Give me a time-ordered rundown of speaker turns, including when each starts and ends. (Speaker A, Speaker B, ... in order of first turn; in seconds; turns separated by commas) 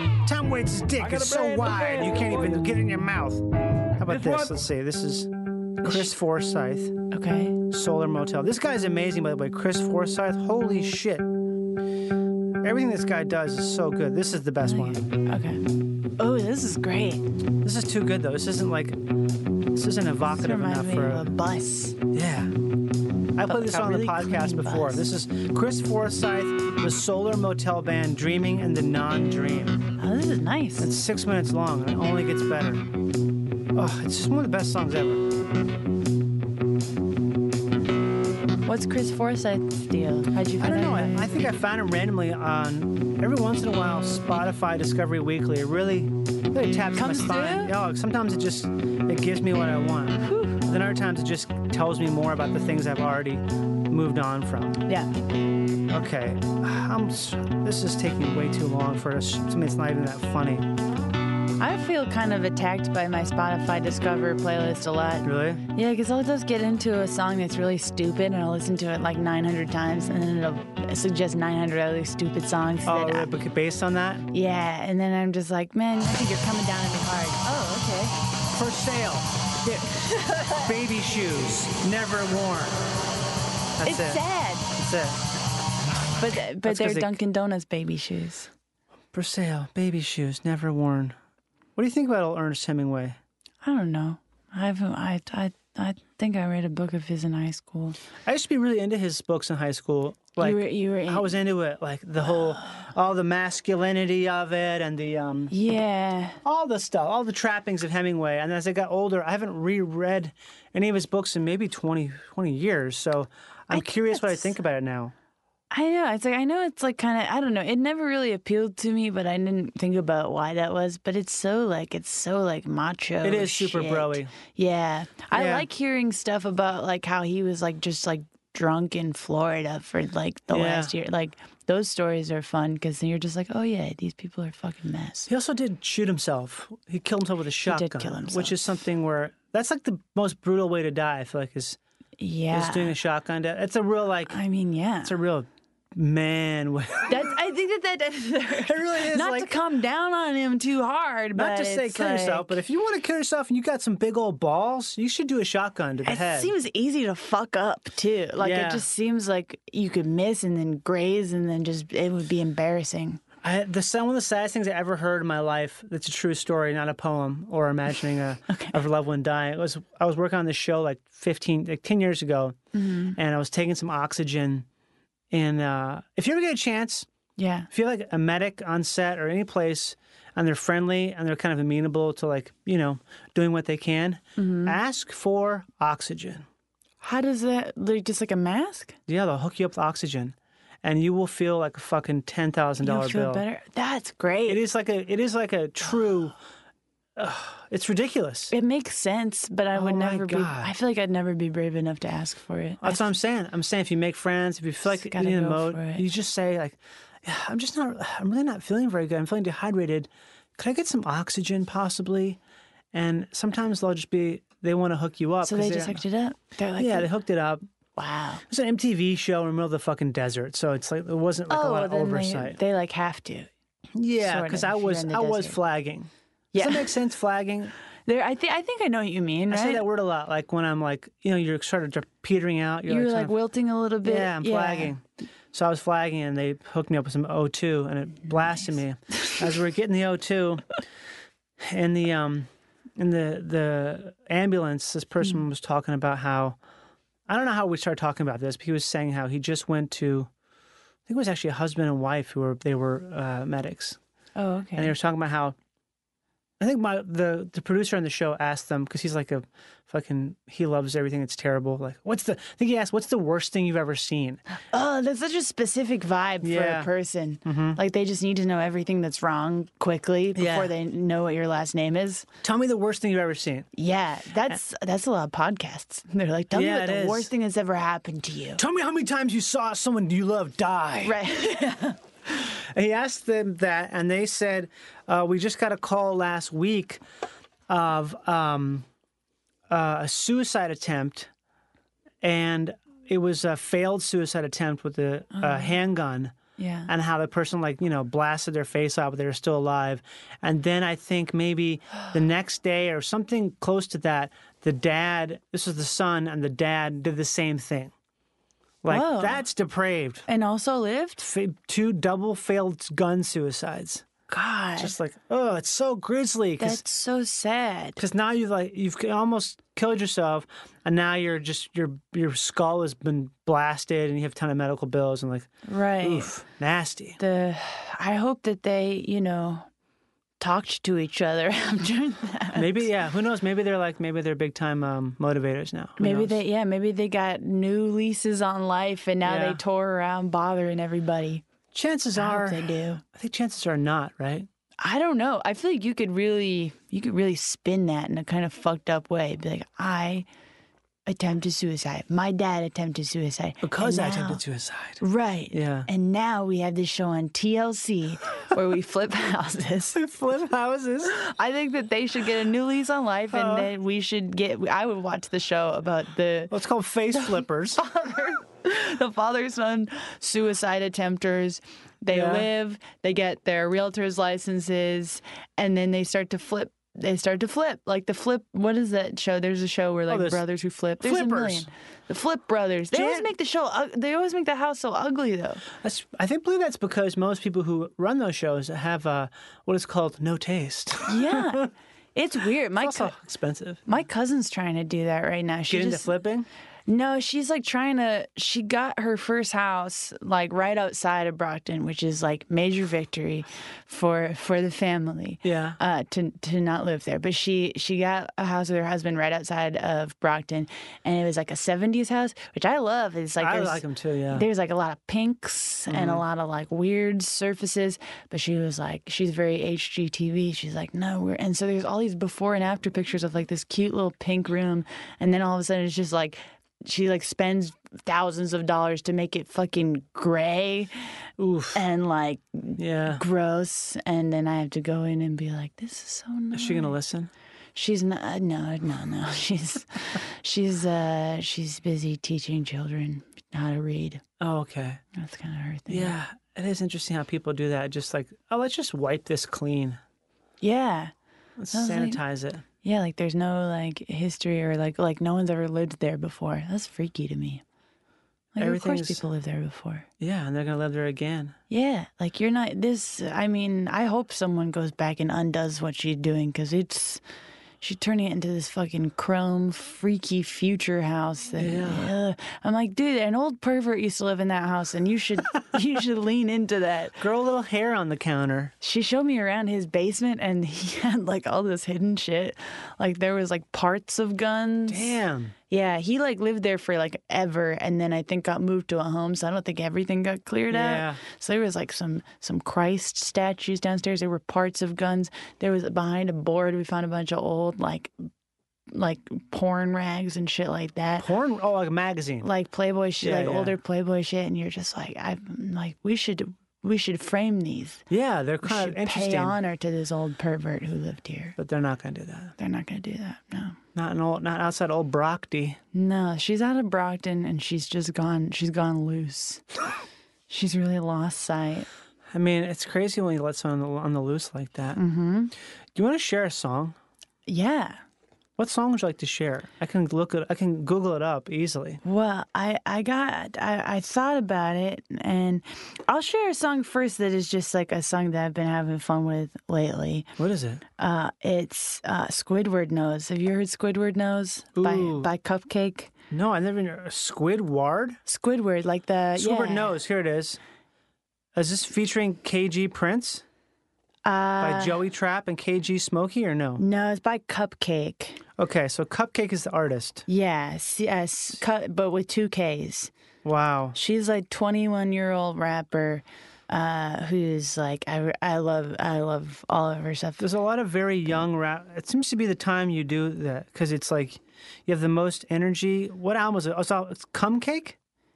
Speaker A: 0.2-5.3, Speaker B: 4.1-4.5, Speaker A: 5.8-7.0, Speaker B: 5.8-6.1, Speaker B: 7.1-7.6, Speaker A: 7.7-11.3, Speaker A: 12.6-15.0, Speaker B: 14.6-15.6, Speaker B: 16.2-17.2, Speaker A: 17.6-19.0, Speaker A: 19.7-21.3, Speaker B: 20.3-22.0, Speaker A: 22.1-22.5, Speaker A: 23.4-29.9, Speaker B: 23.5-25.1, Speaker B: 30.0-30.9, Speaker A: 30.8-32.9, Speaker A: 33.8-35.2, Speaker B: 38.7-41.3, Speaker A: 40.6-54.8, Speaker B: 46.6-47.7, Speaker B: 50.2-50.6, Speaker A: 55.9-60.7, Speaker B: 61.6-73.3, Speaker A: 65.2-65.6, Speaker A: 72.9-74.3, Speaker B: 74.3-78.2, Speaker A: 78.5-79.3, Speaker B: 79.6-80.7, Speaker A: 80.6-82.8, Speaker A: 83.8-85.2, Speaker B: 83.8-84.7, Speaker B: 86.2-88.5, Speaker A: 86.6-87.2, Speaker A: 89.1-91.2, Speaker A: 91.8-93.2, Speaker B: 93.6-98.0, Speaker A: 98.3-105.5, Speaker B: 100.4-101.4, Speaker B: 102.3-102.7, Speaker B: 105.5-106.4, Speaker A: 106.4-115.1, Speaker B: 113.7-114.5, Speaker B: 115.7-135.3, Speaker A: 123.2-124.3, Speaker A: 125.3-125.7, Speaker A: 130.5-130.9, Speaker A: 135.3-141.8, Speaker B: 137.7-138.6, Speaker B: 142.2-142.9, Speaker A: 142.5-144.4, Speaker B: 144.3-145.1, Speaker A: 145.1-147.3, Speaker B: 147.1-152.6, Speaker A: 148.7-149.6, Speaker A: 151.4-156.5, Speaker B: 156.1-163.2, Speaker A: 158.4-158.9, Speaker A: 163.4-172.6, Speaker B: 168.5-168.8, Speaker B: 172.7-173.2, Speaker A: 173.2-174.7, Speaker A: 175.3-177.1, Speaker B: 177.4-177.7, Speaker A: 177.7-186.5, Speaker B: 184.4-184.8, Speaker B: 187.0-188.9, Speaker A: 189.1-193.4, Speaker B: 192.8-194.6, Speaker A: 194.5-196.4, Speaker A: 197.2-198.5, Speaker B: 198.5-203.1, Speaker A: 199.7-200.7, Speaker A: 202.8-212.4, Speaker B: 204.9-206.0, Speaker A: 212.9-216.0, Speaker B: 215.4-217.1, Speaker A: 216.8-217.6, Speaker B: 218.0-218.4, Speaker A: 218.5-222.6, Speaker B: 221.5-223.5, Speaker A: 224.0-227.7, Speaker B: 224.2-225.6, Speaker B: 226.5-226.9, Speaker B: 228.1-229.8, Speaker A: 229.5-233.3, Speaker B: 232.9-234.9, Speaker A: 234.0-235.0, Speaker A: 235.5-240.8, Speaker A: 241.6-246.6, Speaker A: 247.3-250.3, Speaker A: 251.1-254.0, Speaker B: 254.4-254.9, Speaker A: 254.8-255.6, Speaker A: 256.6-264.4, Speaker B: 264.6-272.3, Speaker A: 266.4-266.9, Speaker A: 267.4-267.8, Speaker A: 270.4-270.7, Speaker A: 272.4-273.7, Speaker B: 273.8-278.6, Speaker A: 276.5-277.3, Speaker A: 278.6-281.2, Speaker B: 281.0-282.0, Speaker A: 282.8-287.0, Speaker A: 287.7-288.9, Speaker A: 289.7-291.3, Speaker A: 292.2-296.4, Speaker B: 295.3-295.8, Speaker B: 296.6-296.9, Speaker A: 296.9-307.9, Speaker A: 308.8-310.3, Speaker B: 308.9-309.4, Speaker B: 310.3-311.3, Speaker A: 311.2-314.1, Speaker B: 314.3-314.9, Speaker A: 314.8-316.8, Speaker B: 316.6-318.0, Speaker A: 318.0-327.2, Speaker B: 325.6-326.3, Speaker B: 327.2-329.7, Speaker B: 330.4-332.8, Speaker A: 332.6-336.4, Speaker B: 336.0-341.4, Speaker A: 339.2-339.6, Speaker A: 341.7-344.5, Speaker B: 342.2-343.0, Speaker B: 344.8-350.3, Speaker B: 351.1-354.4, Speaker A: 353.6-355.9, Speaker B: 355.0-360.0, Speaker A: 359.9-361.1, Speaker B: 361.1-366.5, Speaker A: 363.3-363.7, Speaker A: 366.5-367.8, Speaker B: 367.2-385.6, Speaker A: 372.1-372.5, Speaker A: 380.1-380.4, Speaker A: 381.0-381.7, Speaker A: 382.9-383.3, Speaker A: 385.8-391.7, Speaker B: 391.1-393.1, Speaker A: 392.8-393.8, Speaker B: 393.9-396.1, Speaker A: 395.7-396.5, Speaker B: 396.9-430.9, Speaker A: 405.4-405.8, Speaker A: 413.4-414.4, Speaker A: 415.9-416.2, Speaker A: 431.4-431.8, Speaker B: 431.7-436.9, Speaker A: 432.8-433.2, Speaker A: 436.5-437.3, Speaker B: 437.8-444.2, Speaker A: 444.4-445.0, Speaker B: 445.1-446.2, Speaker A: 445.9-450.0, Speaker B: 450.6-451.1, Speaker A: 451.6-452.6, Speaker B: 451.7-452.2, Speaker B: 452.8-457.6, Speaker B: 458.6-460.1, Speaker A: 458.6-459.2, Speaker A: 460.2-461.6, Speaker B: 461.7-467.2, Speaker B: 467.8-477.2, Speaker A: 471.6-472.1, Speaker A: 477.2-478.7, Speaker B: 478.8-485.1, Speaker A: 484.9-485.5, Speaker B: 485.7-498.1, Speaker A: 490.7-491.2, Speaker B: 498.9-501.3, Speaker A: 501.2-502.5, Speaker B: 502.4-508.0, Speaker A: 503.2-503.7, Speaker A: 508.1-509.6, Speaker B: 508.6-511.6, Speaker A: 511.6-512.5, Speaker B: 512.6-513.8, Speaker A: 514.0-515.8, Speaker B: 515.9-519.6, Speaker B: 520.5-521.9, Speaker A: 522.3-525.0, Speaker B: 525.0-525.5, Speaker A: 526.0-527.0, Speaker B: 527.5-528.0, Speaker A: 528.6-532.0, Speaker B: 532.0-540.3, Speaker A: 540.4-540.8, Speaker B: 541.0-546.1, Speaker A: 544.8-545.3, Speaker A: 546.3-548.2, Speaker B: 548.3-550.0, Speaker A: 549.4-550.6, Speaker A: 551.5-553.4, Speaker B: 554.2-555.0, Speaker A: 554.6-556.8, Speaker B: 556.8-558.4, Speaker A: 558.6-560.2, Speaker B: 560.3-563.1, Speaker A: 563.4-564.0, Speaker B: 564.0-570.5, Speaker A: 570.4-578.0